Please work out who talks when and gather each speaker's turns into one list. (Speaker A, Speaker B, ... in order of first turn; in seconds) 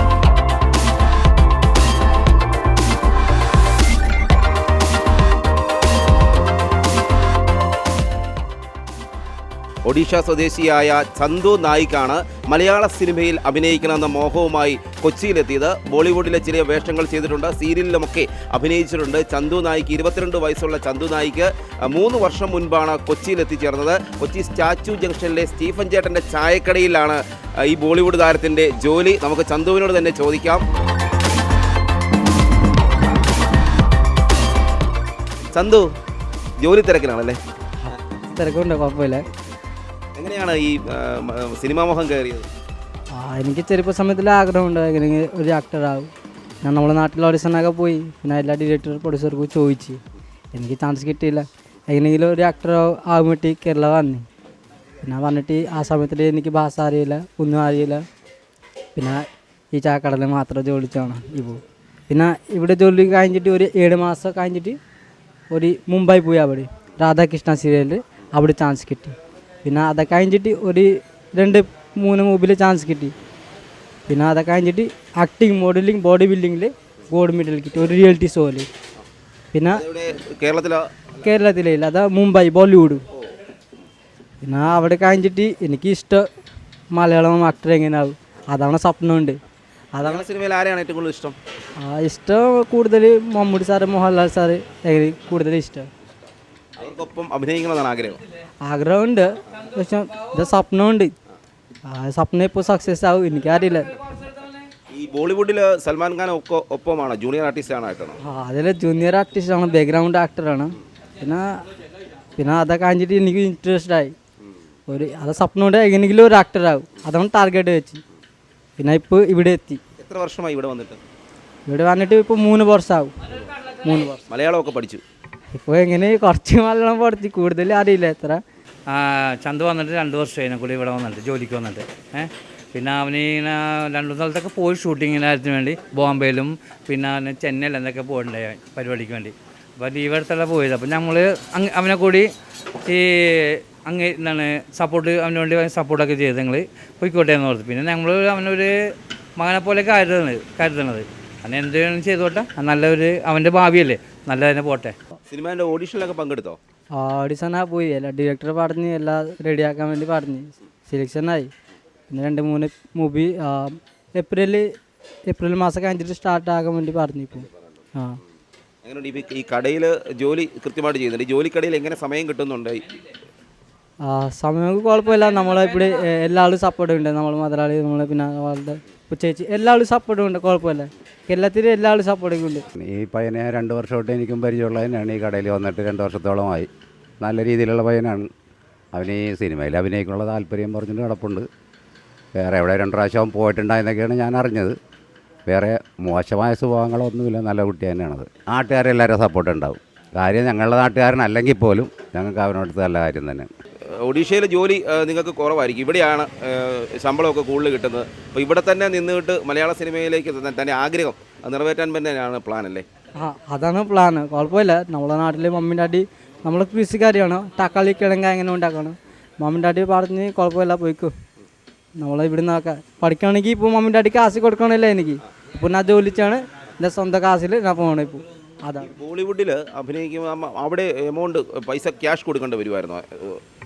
Speaker A: 9.8-30.6, 35.5-35.9, 36.6-37.4, 40.1-42.5, 79.7-81.1, 90.0-91.4, 96.8-98.2, 104.9-108.2, 120.0-121.0, 124.3-125.0, 155.3-156.6, 167.4-167.7, 168.8-172.9, 203.9-212.8, 228.8-233.4
Speaker B: 37.8-39.2, 43.1-46.1, 46.6-50.0, 50.5-54.2, 55.0-58.0, 59.0-64.8, 65.5-73.1, 74.1-78.7, 79.5-79.8, 81.2-83.0, 84.4-86.2, 86.9-89.4, 89.9-90.2, 91.8-95.9, 98.7-101.1, 101.9-104.1, 108.2-111.6, 112.3-114.1, 114.9-118.0, 118.8-119.8, 121.7-123.1, 123.7-124.2, 125.5-128.4, 156.9-161.5, 162.1-164.7, 165.3-168.2, 174.0-182.6, 213.2-221.1, 221.9-228.9
Speaker C: 128.9-142.3, 142.8-148.8, 149.4-154.9
Speaker D: 182.8-186.7, 187.2-188.3, 188.9-191.4, 192.3-194.8, 195.5-203.5